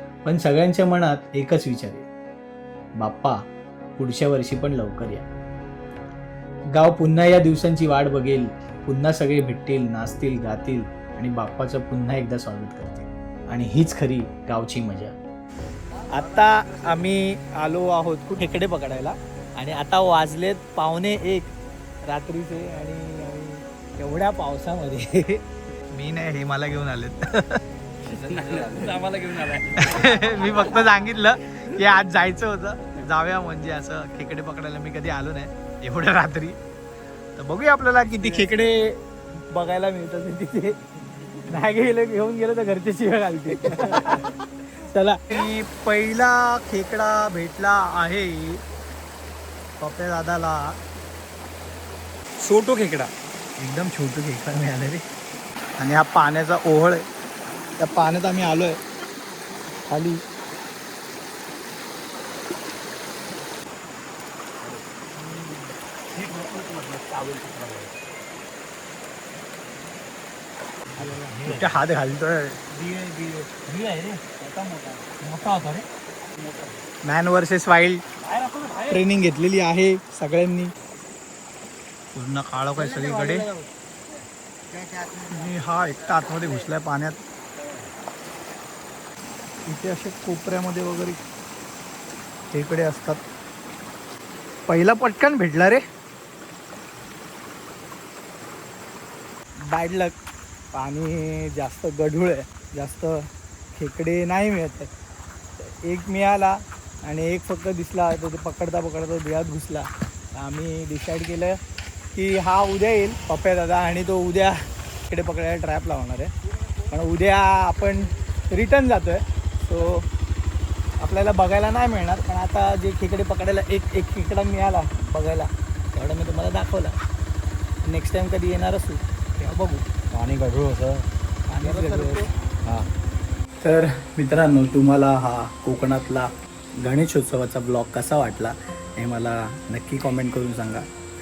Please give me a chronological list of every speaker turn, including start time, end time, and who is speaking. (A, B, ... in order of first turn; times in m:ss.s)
0:00.2-0:02.1 A
0:03.0-0:03.4 A
0:04.0-0:05.3 A
0:06.7-0:15.2 A
0:16.1-0:21.5 A
0:22.1-0:27.6 A
0:28.0-0:29.8 B
0:29.7-0:36.6 A
0:37.4-0:40.8 A
0:41.5-0:44.3 A
0:44.8-0:48.6 A
0:49.8-0:50.8 A
0:52.4-0:55.0 A
0:55.8-0:57.0 A
0:57.8-0:58.8 A
0:59.9-1:00.2 A
1:06.2-1:07.8 A
1:11.0-1:11.8 B
1:11.0-1:14.2 A
1:15.2-1:15.8 A
1:17.0-1:18.0 A
1:18.8-1:20.7 A
1:22.1-1:23.5 A
1:24.8-1:27.2 A
1:29.7-1:31.2 A
1:32.5-1:33.2 A
1:34.7-1:35.8 A
1:39.6-1:40.1 A
1:40.7-1:44.9 A
1:45.6-1:51.6 A
1:52.2-1:56.3 A
1:56.9-2:00.1 A
2:01.0-2:07.0 A
2:07.9-2:09.8 A
2:10.1-2:11.1 B
2:11.5-2:12.3 A
2:12.6-2:12.9 B
2:13.6-2:20.9 A